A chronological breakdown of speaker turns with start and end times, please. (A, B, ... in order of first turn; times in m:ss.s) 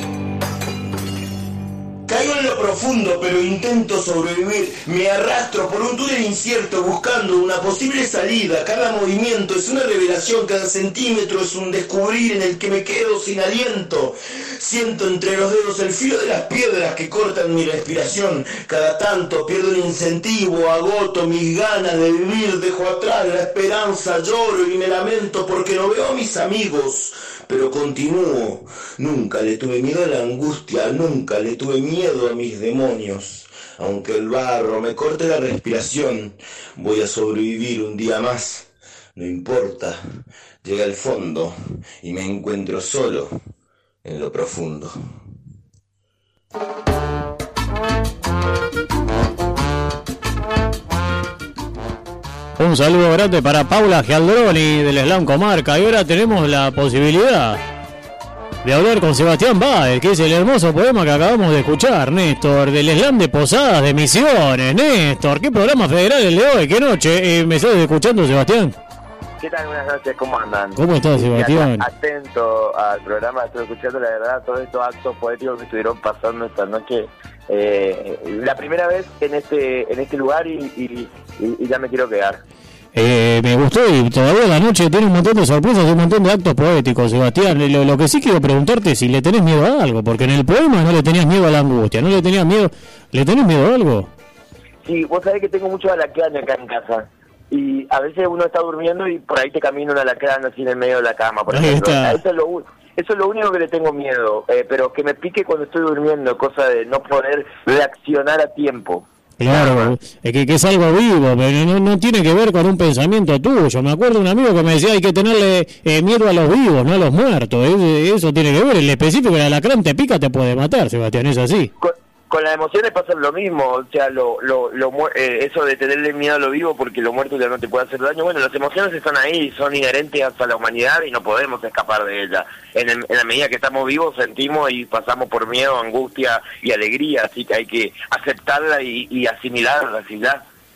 0:02.1-0:40.0 A
0:40.6-0:43.3 A
0:44.0-0:45.0 A
0:52.6-0:57.6 B
0:58.6-1:08.7 B
1:09.4-1:22.4 C
1:10.7-1:11.8 B
1:22.9-1:34.1 B
1:34.8-1:49.9 C
1:41.5-1:42.2 B
1:49.4-2:01.7 B
2:01.8-2:20.4 C